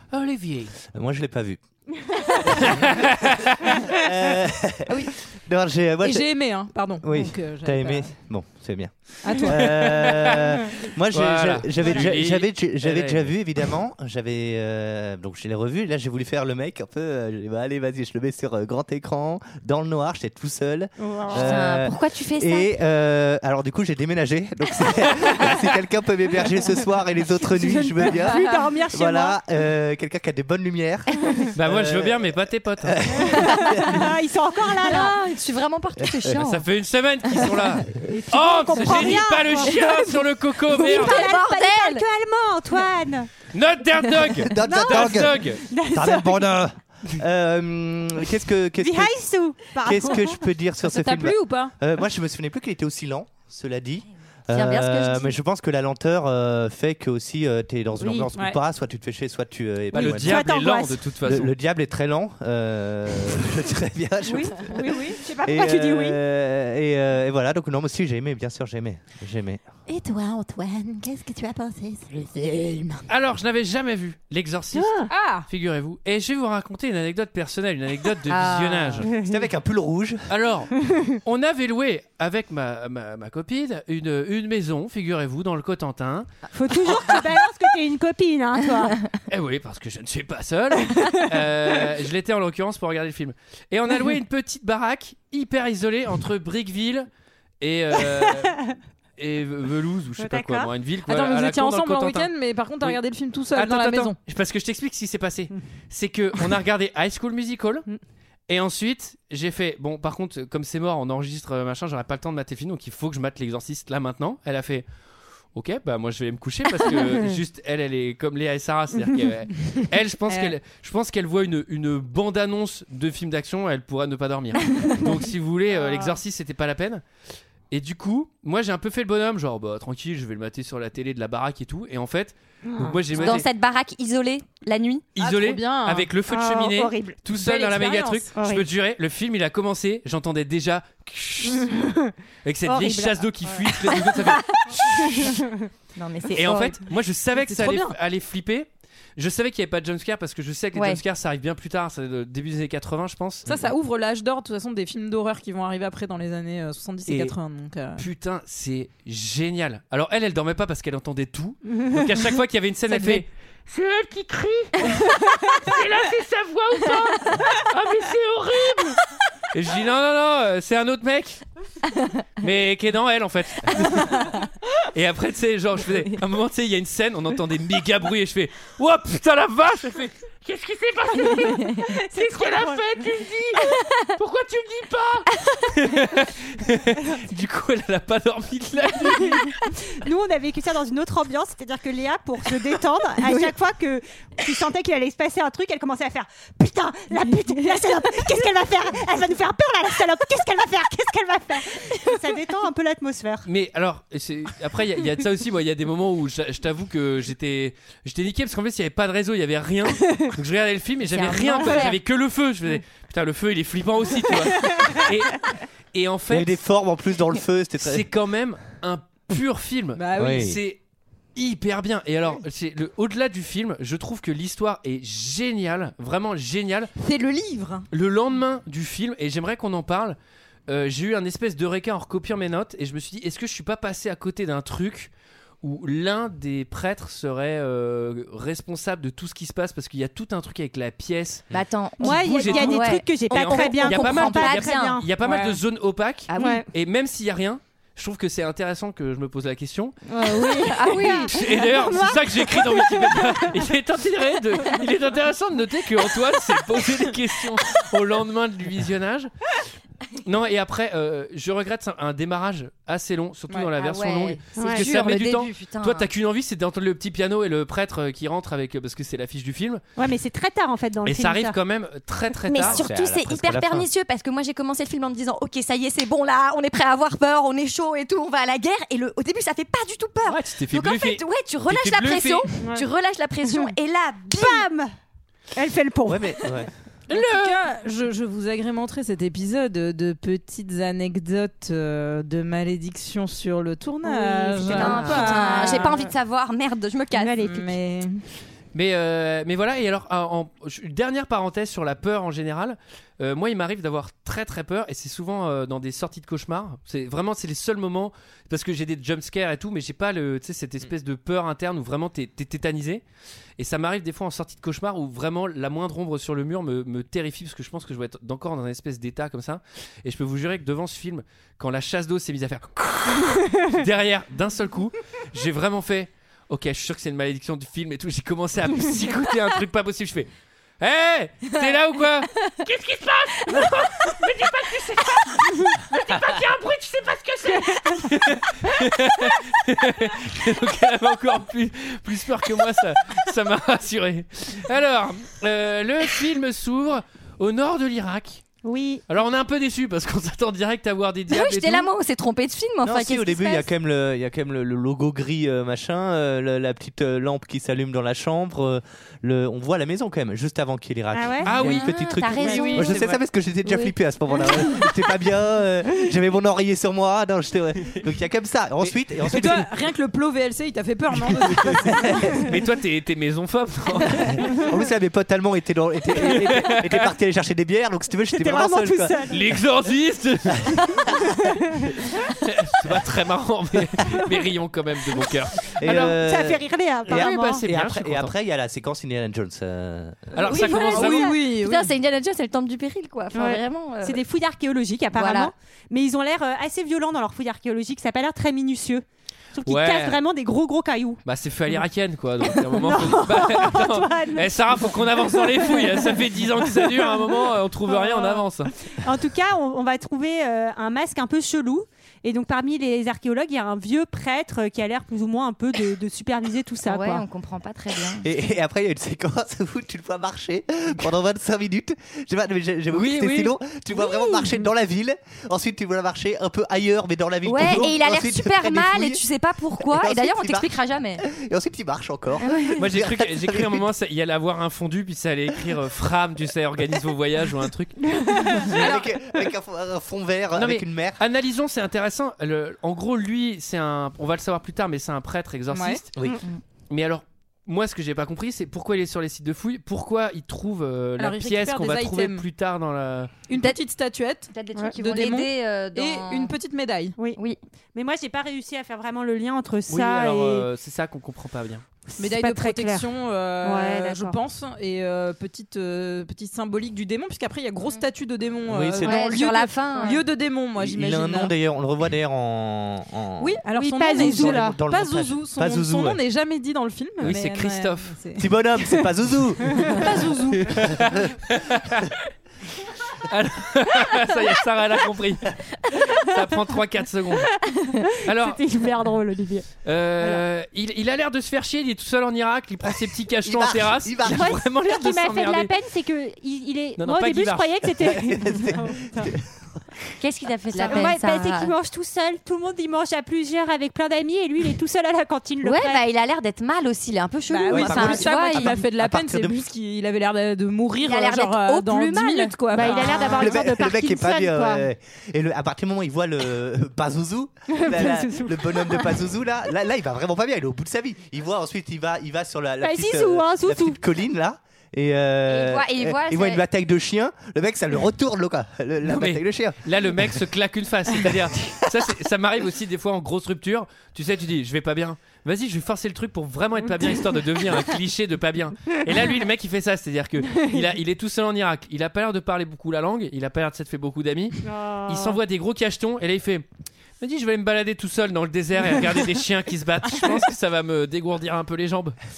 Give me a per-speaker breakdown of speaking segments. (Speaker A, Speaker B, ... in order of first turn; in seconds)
Speaker A: 0.1-0.7, 2.5-3.7, 9.5-10.5, 11.1-13.4, 31.5-33.0, 36.4-41.3, 43.5-45.6, 59.9-61.5, 73.1-74.9, 75.5-79.1, 80.3-80.7, 81.2-86.3, 89.3-97.1, 97.6-98.5, 99.2-102.3, 103.5-107.8, 108.5-114.8, 115.5-127.0, 127.7-133.5, 135.2-141.7, 142.4-145.3, 146.3-153.7, 157.1-157.3, 157.9-169.0, 169.5-171.4, 172.4-174.3, 174.9-189.6, 203.4-216.6, 217.8-220.8, 221.3-226.9, 227.9-230.2, 230.7-241.5, 242.0-249.9, 251.0-259.3, 260.2-269.8, 271.0-272.8, 280.2-282.4, 287.1-287.6, 298.7-313.0, 313.6-330.3, 330.8-348.4, 349.1-351.9, 361.4-363.2, 372.4-374.6, 376.1-377.1, 379.3-381.1, 382.3-386.1, 387.1-388.3, 390.3-391.3, 399.6-400.2, 401.2-408.7, 422.9-423.6, 432.8-438.8, 440.6-446.1, 446.9-453.3, 459.9-461.8, 477.2-478.1, 480.6-482.2, 483.2-487.6, 488.2-488.6, 489.8-495.7, 497.0-497.9, 529.0-546.6, 547.2-552.1
Speaker B: 0.9-1.6, 3.7-6.3, 7.0-34.0, 36.0-36.4, 44.5-49.2, 49.7-60.5, 61.2-69.6, 79.2-80.2, 216.3-218.1, 220.2-220.6, 272.6-273.9, 286.1-286.7, 352.8-369.7, 371.1-372.4, 374.5-379.3, 380.6-381.2, 385.8-390.5, 418.2-429.2, 429.8-433.9, 438.5-441.2, 446.1-446.4, 468.7-469.3, 470.8-476.2, 478.4-481.1, 493.4-494.6, 498.0-499.5, 507.7-509.6, 513.2-530.3, 531.2-531.8
Speaker C: 2.1-2.8, 3.7-4.0, 21.0-21.5, 27.4-29.4, 33.2-35.1, 38.0-43.3, 44.7-46.5, 48.8-50.4, 58.0-58.3, 59.9-61.0, 64.2-66.2, 74.7-75.1, 79.1-79.4, 86.5-89.0, 98.2-98.7, 100.2-100.7, 125.8-126.1, 132.7-133.0, 136.3-137.2, 138.4-138.7, 141.6-143.6, 145.0-145.5, 181.7-183.0, 189.0-203.5, 214.5-215.0, 242.0-245.1, 246.3-246.7, 250.1-253.7, 264.6-264.8, 270.0-271.6, 283.4-283.7, 284.3-284.9, 285.5-286.5, 294.0-296.1, 297.1-297.7, 348.6-349.0, 361.1-361.5, 362.4-362.9, 378.3-379.4, 385.9-387.6, 390.5-390.9, 393.3-401.2, 402.5-406.2, 406.8-407.3, 407.9-417.2, 438.1-438.7, 457.9-460.7, 462.1-463.1, 463.6-464.4, 473.7-474.8, 488.0-490.4, 494.2-499.3, 500.8-506.0, 512.7-514.9, 517.7-519.1, 522.8-524.0, 540.5-540.8, 544.6-545.4
Speaker D: 6.0-8.1, 9.2-10.0, 50.8-51.7, 58.3-58.6, 69.9-73.0, 75.1-75.5, 101.0-104.2, 120.3-120.5, 135.2-136.1, 137.3-138.3, 147.4-148.0, 153.4-158.0, 162.9-163.2, 219.9-220.5, 227.0-227.9, 245.2-245.6, 287.1-296.1, 297.4-298.2, 369.2-372.4, 390.5-391.9, 445.7-446.0, 451.2-452.4, 453.5-457.1, 462.2-471.5, 473.4-478.5, 479.8-480.9, 507.5-513.4
Speaker E: 21.3-22.8, 34.8-36.6, 40.7-42.0, 54.5-55.4, 78.3-79.0, 133.2-135.1, 145.9-146.8, 150.7-151.0, 211.1-212.0, 241.5-245.0, 246.3-246.6, 250.2-251.4, 263.8-266.1, 272.6-284.7, 294.7-297.5, 351.3-353.7, 361.6-363.0, 363.6-363.9, 390.6-394.2, 395.1-395.5, 416.9-418.3, 427.4-431.3, 432.4-432.8, 454.5-456.5, 469.0-470.2, 500.2-501.7, 505.6-508.8, 511.0-513.5, 525.5-526.6